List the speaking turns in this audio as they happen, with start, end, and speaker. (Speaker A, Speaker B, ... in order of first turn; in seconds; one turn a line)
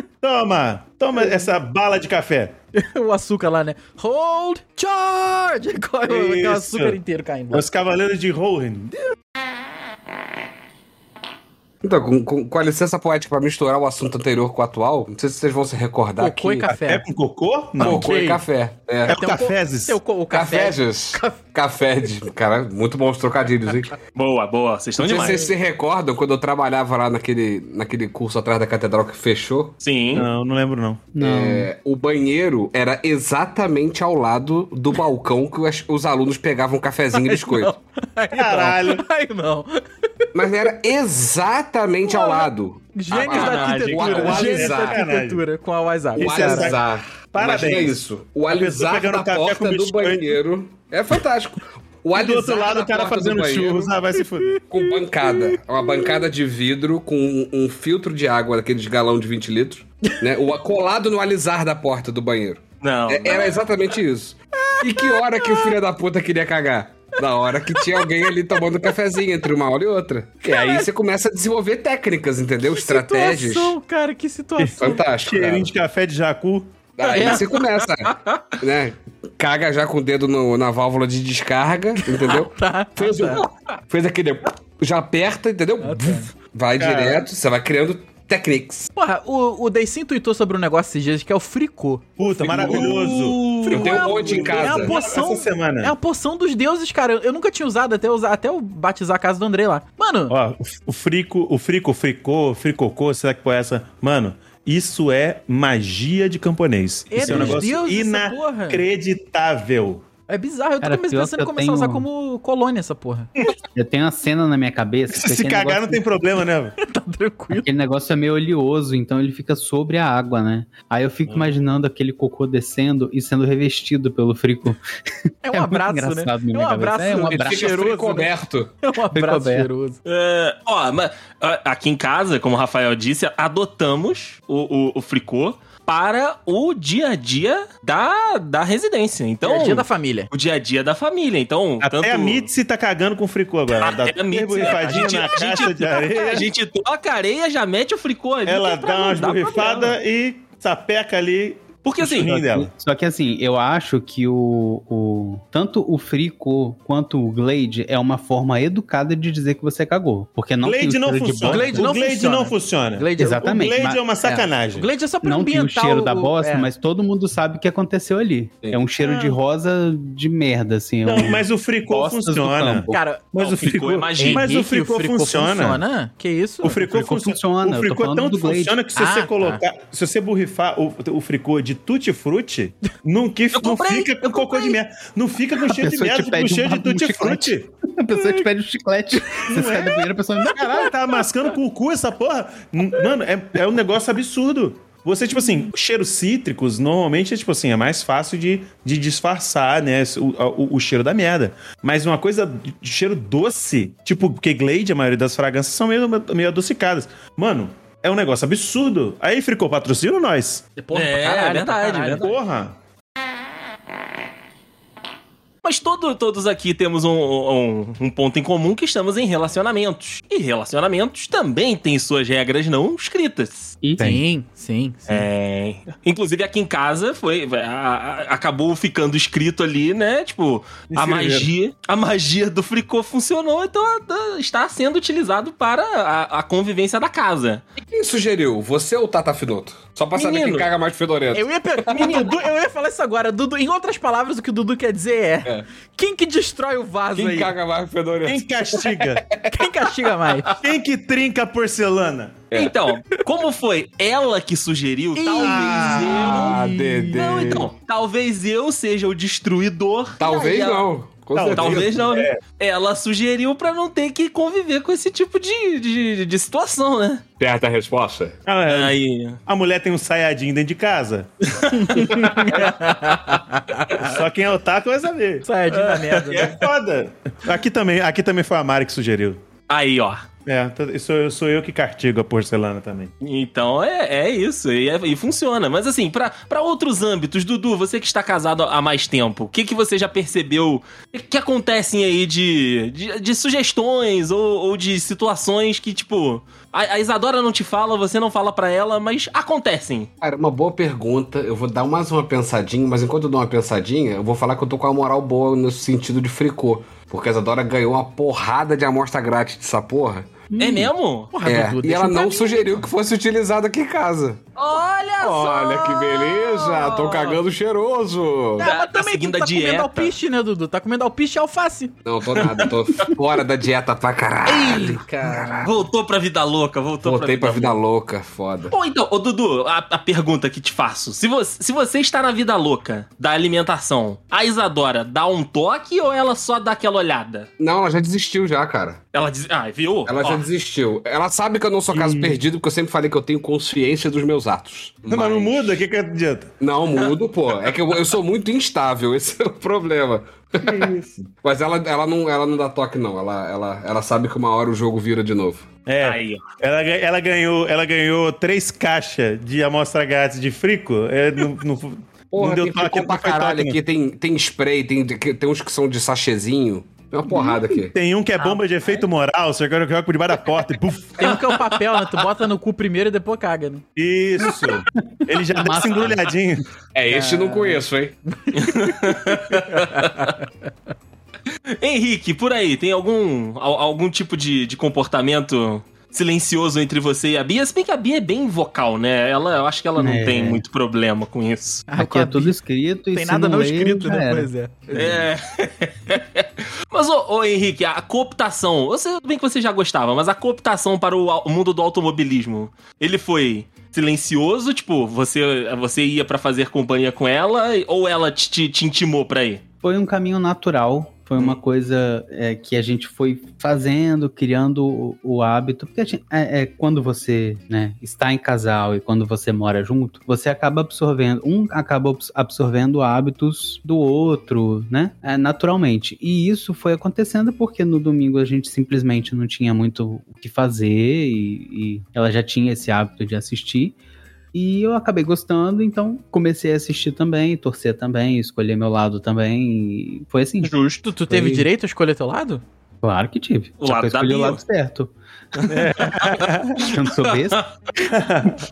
Speaker A: 0.2-2.5
Speaker B: 2.7-7.7
Speaker A: 6.1-7.0
Speaker A: 7.5-9.0
Speaker C: 11.8-16.7
Speaker B: 16.2-17.0
Speaker A: 16.7-18.1
Speaker B: 17.8-18.4
Speaker C: 17.8-19.2
Speaker A: 19.1-20.0
Speaker B: 19.1-21.4
Speaker C: 20.3-24.0
Speaker D: 24.1-25.5
Speaker C: 25.0-29.8
Speaker A: 25.0-25.4
Speaker D: 29.8-30.3
Speaker A: 30.1-31.2
Speaker E: 31.1-31.7
Speaker C: 31.2-37.8
Speaker B: 37.1-40.3
Speaker A: 38.3-39.0
Speaker C: 40.3-45.0
Speaker B: 42.0-46.8
Speaker D: 43.1-44.4
Speaker A: 44.0-45.4
Speaker C: 46.1-53.9
Speaker A: 46.2-50.4
Speaker A: 52.1-54.6
Speaker B: 54.3-56.2
Speaker C: 54.6-73.8
Speaker D: 62.8-63.6
Speaker B: 64.6-65.8
Speaker B: 67.7-68.9
Speaker B: 70.5-70.9
Speaker B: 72.7-75.0
Speaker A: 74.6-77.3
Speaker C: 74.8-75.7
Speaker C: 77.0-88.9
Speaker B: 77.2-77.4
Speaker D: 77.2-78.1
Speaker B: 82.0-83.4
Speaker B: 85.8-86.3
Speaker A: 86.8-87.2
Speaker B: 89.0-100.4
Speaker A: 92.2-95.9
Speaker C: 92.3-95.0
Speaker D: 92.6-94.6
Speaker A: 100.3-110.0
Speaker B: 107.1-108.8
Speaker E: 107.2-107.6
Speaker B: 110.3-113.3
Speaker E: 110.8-112.1
Speaker E: 113.7-116.0
Speaker A: 115.1-116.8
Speaker B: 116.8-117.7
Speaker E: 117.5-124.8
Speaker B: 125.4-128.3
Speaker E: 125.5-127.8
Speaker C: 127.2-128.7
Speaker B: 128.8-130.0
Speaker E: 129.1-129.7
Speaker D: 130.1-142.5
Speaker B: 139.4-140.3
Speaker A: 141.8-146.5
Speaker D: 143.7-149.9
Speaker A: 148.5-152.7
Speaker B: 149.1-149.9
Speaker D: 151.8-152.3
Speaker E: 152.1-161.9
Speaker A: 160.6-164.9
Speaker B: 161.4-163.6
Speaker E: 163.2-164.5
Speaker B: 164.7-166.7
Speaker E: 165.2-173.0
Speaker A: 169.0-169.4
Speaker A: 171.1-175.8
Speaker B: 172.9-173.2
Speaker D: 173.4-174.5
Speaker B: 174.2-176.9
Speaker A: 176.6-187.7
Speaker E: 176.8-178.8
Speaker B: 179.0-179.6
Speaker D: 183.6-184.8
Speaker E: 185.6-190.9
Speaker B: 188.1-188.4
Speaker B: 189.3-189.7
Speaker A: 189.5-210.7
Speaker B: 210.8-212.3
Speaker D: 210.9-212.4
Speaker A: 212.2-212.8
Speaker D: 215.6-223.8
Speaker E: 223.8-224.2
Speaker B: 224.0-225.2
Speaker D: 225.1-237.7
Speaker A: 230.9-231.5
Speaker C: 237.8-242.3
Speaker D: 240.2-240.7
Speaker B: 241.3-247.5
Speaker C: 247.1-249.7
Speaker A: 248.2-249.2
Speaker B: 249.5-250.6
Speaker A: 250.6-252.5
Speaker D: 252.5-256.6
Speaker B: 255.2-257.1
Speaker A: 255.4-256.4
Speaker C: 256.1-257.7
Speaker D: 257.1-260.9
Speaker C: 260.2-262.0
Speaker A: 261.4-262.4
Speaker D: 261.5-267.2
Speaker C: 267.4-268.4
Speaker A: 268.5-271.3
Speaker D: 268.7-269.4
Speaker D: 271.5-272.6
Speaker B: 271.8-274.2
Speaker A: 271.9-272.8
Speaker A: 273.9-275.5
Speaker B: 275.4-276.6
Speaker D: 275.7-276.6
Speaker A: 276.3-279.4
Speaker D: 279.7-280.2
Speaker A: 280.5-283.1
Speaker D: 283.2-300.1
Speaker C: 300.2-310.5
Speaker E: 310.5-310.9
Speaker D: 310.6-311.3
Speaker B: 311.3-312.8
Speaker C: 311.4-314.4
Speaker D: 314.6-317.4
Speaker C: 315.2-318.7
Speaker B: 318.6-322.0
Speaker D: 318.6-320.1
Speaker C: 322.1-325.7
Speaker D: 322.4-323.1
Speaker B: 324.9-325.5
Speaker D: 325.6-327.8
Speaker C: 327.0-328.8
Speaker D: 328.7-337.5
Speaker C: 337.6-339.0
Speaker D: 339.1-340.4
Speaker C: 340.1-345.8
Speaker A: 341.9-342.4
Speaker A: 345.1-346.5
Speaker C: 346.6-350.9
Speaker A: 350.6-351.3
Speaker C: 351.4-355.7
Speaker A: 355.9-363.8
Speaker D: 356.0-356.4
Speaker C: 362.3-367.9
Speaker A: 367.9-371.4
Speaker B: 371.2-373.8
Speaker A: 374.0-376.7
Speaker E: 375.1-376.1
Speaker C: 376.9-378.1
Speaker B: 377.1-380.3
Speaker D: 378.6-380.4
Speaker D: 381.8-391.9
Speaker E: 390.0-390.6
Speaker B: 391.9-392.6
Speaker E: 392.0-394.5
Speaker B: 393.1-395.3
Speaker D: 394.9-409.6
Speaker E: 409.8-434.0
Speaker E: 434.5-440.7
Speaker D: 440.6-441.0
Speaker B: 441.0-442.6
Speaker E: 441.3-441.7
Speaker E: 443.0-446.2
Speaker D: 443.8-444.6
Speaker D: 445.6-447.7
Speaker A: 445.7-446.9
Speaker E: 446.8-447.6
Speaker A: 448.0-448.6